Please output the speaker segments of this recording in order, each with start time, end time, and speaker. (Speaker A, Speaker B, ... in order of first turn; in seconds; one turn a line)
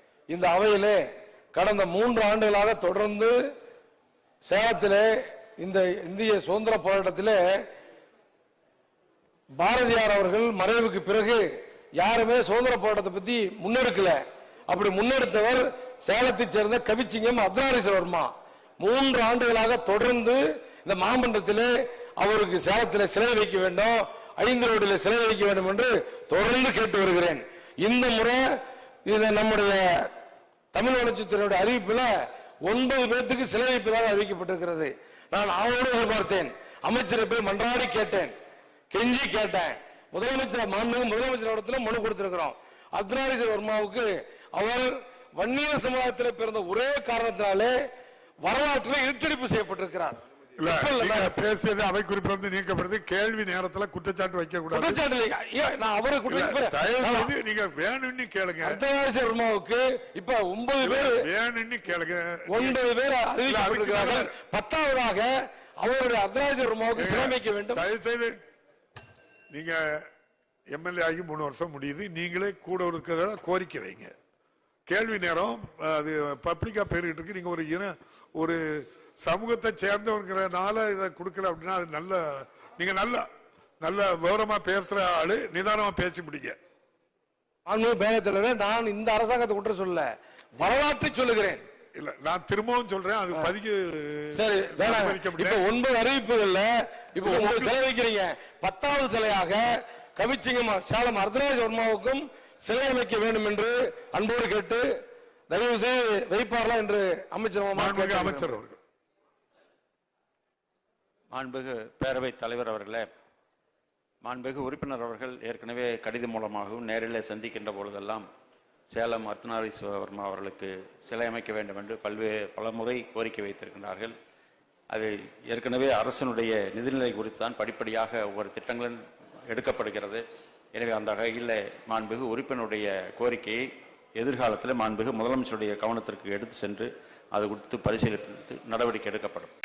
Speaker A: 0.3-1.0
Speaker A: 1.5-3.4
Speaker A: 4.5-7.6
Speaker A: 9.6-11.5
Speaker A: 12.0-28.5
Speaker A: 29.1-30.1
Speaker A: 30.7-32.1
Speaker A: 32.6-38.3
Speaker A: 38.9-47.7
Speaker A: 48.4-50.2
Speaker B: 50.6-55.0
Speaker A: 50.7-51.3
Speaker A: 54.7-57.3
Speaker B: 56.3-58.8
Speaker A: 58.6-61.2
Speaker B: 60.8-62.8
Speaker A: 62.5-67.8
Speaker B: 63.5-64.3
Speaker B: 67.0-68.3
Speaker B: 69.5-70.0
Speaker B: 70.7-74.1
Speaker B: 74.9-83.2
Speaker B: 83.8-86.5
Speaker A: 87.7-91.6
Speaker B: 92.0-95.6
Speaker A: 94.3-104.9
Speaker B: 97.2-97.8
Speaker A: 105.5-108.6
Speaker B: 107.8-108.8
Speaker C: 111.3-113.0
Speaker C: 114.2-118.3
Speaker C: 118.9-124.1
Speaker C: 124.9-129.0
Speaker C: 129.5-130.2
Speaker C: 130.7-133.7
Speaker C: 134.2-139.5